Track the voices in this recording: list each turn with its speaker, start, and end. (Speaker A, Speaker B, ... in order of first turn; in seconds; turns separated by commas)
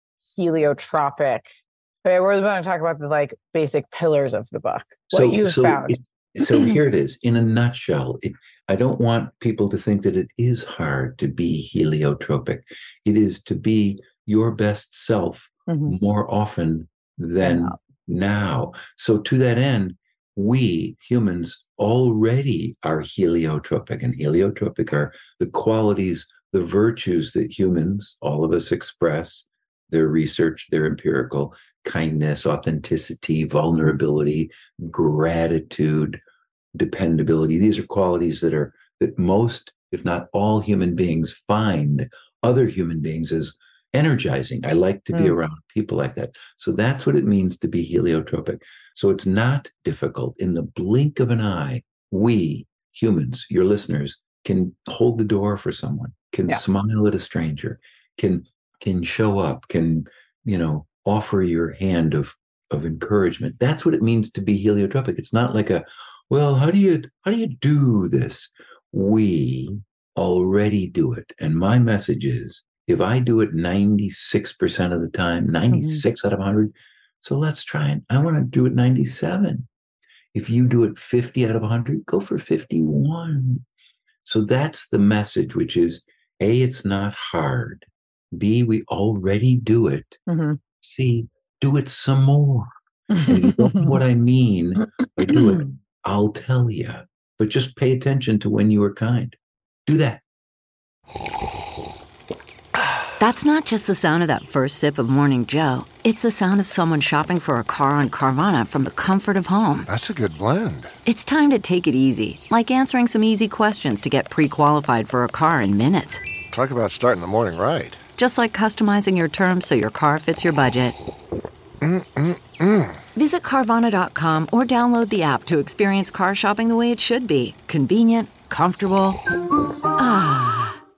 Speaker A: 0.2-6.0, Speaker B: 5.1-36.2, Speaker A: 15.7-15.9, Speaker A: 17.4-17.8, Speaker B: 36.8-79.7, Speaker A: 75.7-76.0, Speaker B: 80.3-83.6, Speaker B: 84.2-90.2, Speaker A: 90.3-90.6, Speaker B: 90.8-92.7, Speaker A: 93.1-93.8, Speaker B: 93.2-100.2, Speaker C: 103.2-109.9, Speaker D: 109.8-110.9, Speaker C: 111.1-116.2, Speaker D: 116.5-118.0, Speaker C: 118.2-121.0, Speaker D: 121.8-123.0, Speaker C: 123.2-129.2, Speaker C: 130.0-130.8